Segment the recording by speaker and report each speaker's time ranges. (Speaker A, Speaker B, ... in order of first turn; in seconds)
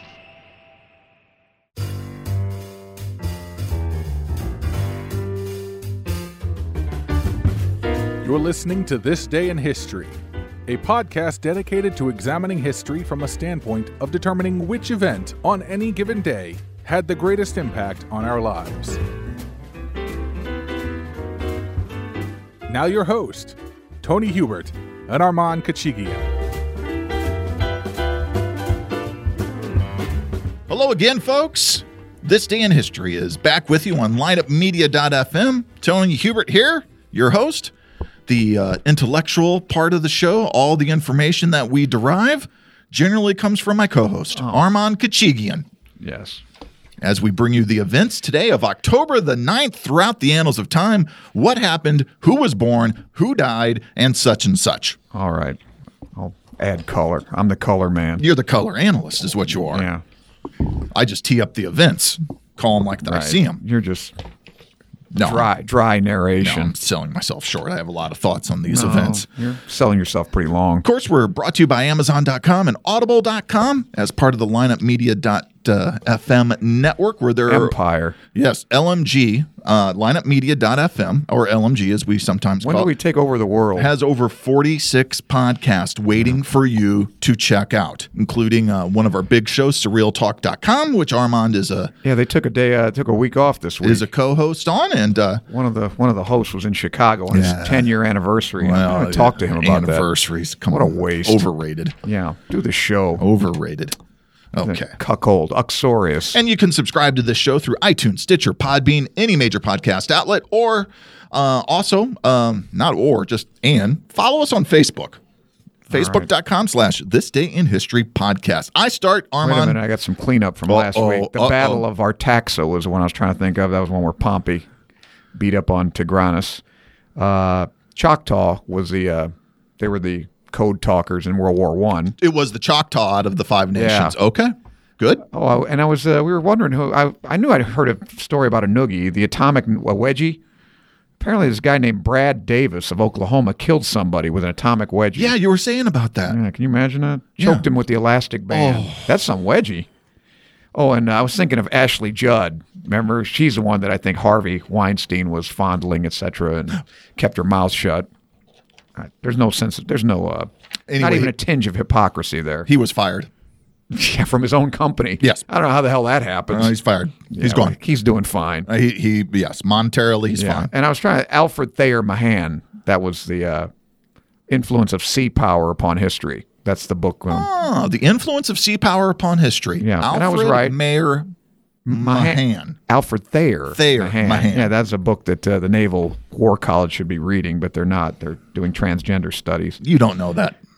Speaker A: 8.2-10.2, 10.7-19.0, 22.7-26.3
Speaker B: 30.7-37.7, 38.3-45.6, 47.0-55.0, 58.2-59.8, 60.9-63.6, 65.1-65.5, 66.4-69.3, 70.8-77.8, 78.3-82.9, 83.8-91.9, 93.8-95.4, 97.3-97.9, 98.6-102.0, 103.2-104.0, 104.5-104.9, 106.3-115.2, 115.9-119.8, 120.7-121.9, 132.2-135.2, 145.2-146.4, 147.4-147.7, 148.5-149.1, 160.9-161.3, 162.7-163.3, 166.5-167.8, 168.7-170.7, 177.3-181.3, 181.9-182.8, 183.7-184.7, 189.8-190.6
Speaker C: 46.0-46.4, 55.1-55.6, 56.1-58.2, 59.7-60.0, 63.0-64.2, 65.2-66.7, 68.7-70.9, 77.5-78.2, 82.6-83.9, 92.0-94.1, 95.5-100.1, 100.7-101.5, 102.0-103.2, 104.6-106.4, 115.9-116.3, 119.4-124.7, 125.3-126.6, 127.2-132.2, 133.7-134.2, 135.3-140.4, 141.2-145.3, 146.3-149.9, 150.7-158.1, 159.0-162.7, 163.9-166.8, 167.3-168.7, 170.4-173.7, 174.5-177.5, 179.8-180.8, 181.9-189.8